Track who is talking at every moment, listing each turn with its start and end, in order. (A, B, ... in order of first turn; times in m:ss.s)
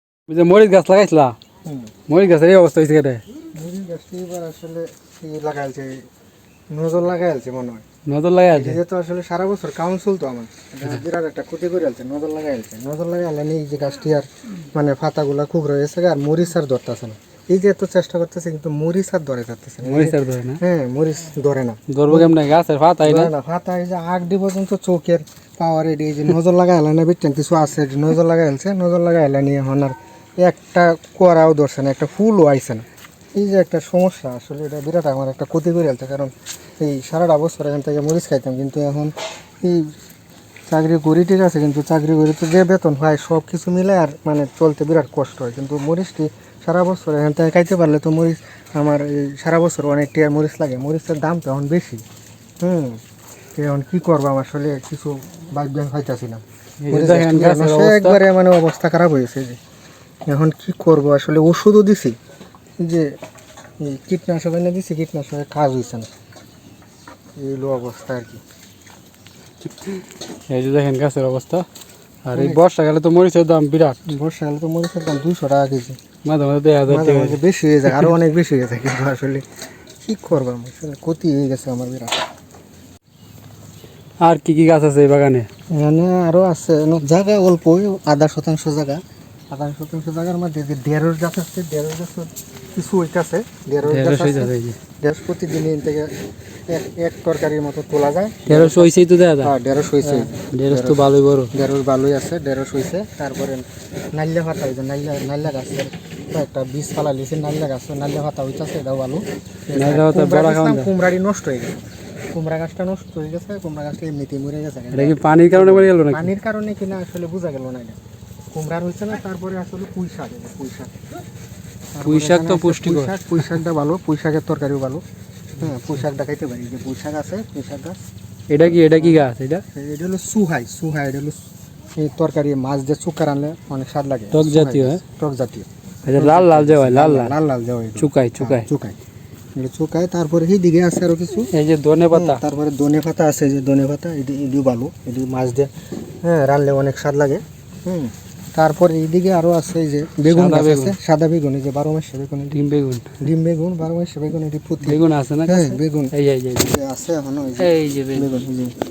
0:00.3-0:01.4 A
0:01.6-0:01.9 B
0:02.1-0:03.2 A
0:03.5-0:06.0 B
0:06.7-0:07.8 B
0:08.1-0:08.8 A
0:08.5-0:22.4 B
0:19.8-0:20.6 A
0:21.9-0:23.3 A
0:23.0-0:39.9 B
0:40.7-0:52.0 B
0:52.6-0:53.0 B
0:53.5-0:59.6 B
0:56.8-0:58.2 A
1:00.3-1:02.2 B
1:02.8-1:03.1 B
1:03.8-1:06.1 B
1:07.4-1:08.4 B
1:09.8-1:11.6 A
1:12.2-1:14.1 A
1:12.3-1:12.6 B
1:14.0-1:16.0 B
1:16.2-1:18.1 A
1:16.9-1:19.4 B
1:20.0-1:22.2 B
1:24.2-1:25.5 A
1:25.7-1:36.1 B
1:33.9-1:34.8 A
1:36.7-1:58.0 B
1:38.5-1:41.5 A
1:49.7-1:50.9 A
1:54.9-1:56.3 A
1:58.5-2:00.9 B
2:01.9-2:05.0 B
2:02.0-2:03.6 A
2:05.6-2:08.0 B
2:08.5-2:09.6 A
2:08.8-2:09.2 B
2:09.7-2:11.4 B
2:12.0-2:19.0 B
2:14.3-2:15.0 A
2:16.0-2:17.4 A
2:18.0-2:18.7 A
2:19.5-2:21.5 B
2:21.5-2:22.4 A
2:22.1-2:25.7 B
2:26.2-2:32.6 B
2:30.3-2:31.0 A
2:32.5-2:33.2 A
2:33.2-2:38.7 B
2:34.8-2:36.8 A
2:37.6-2:38.4 A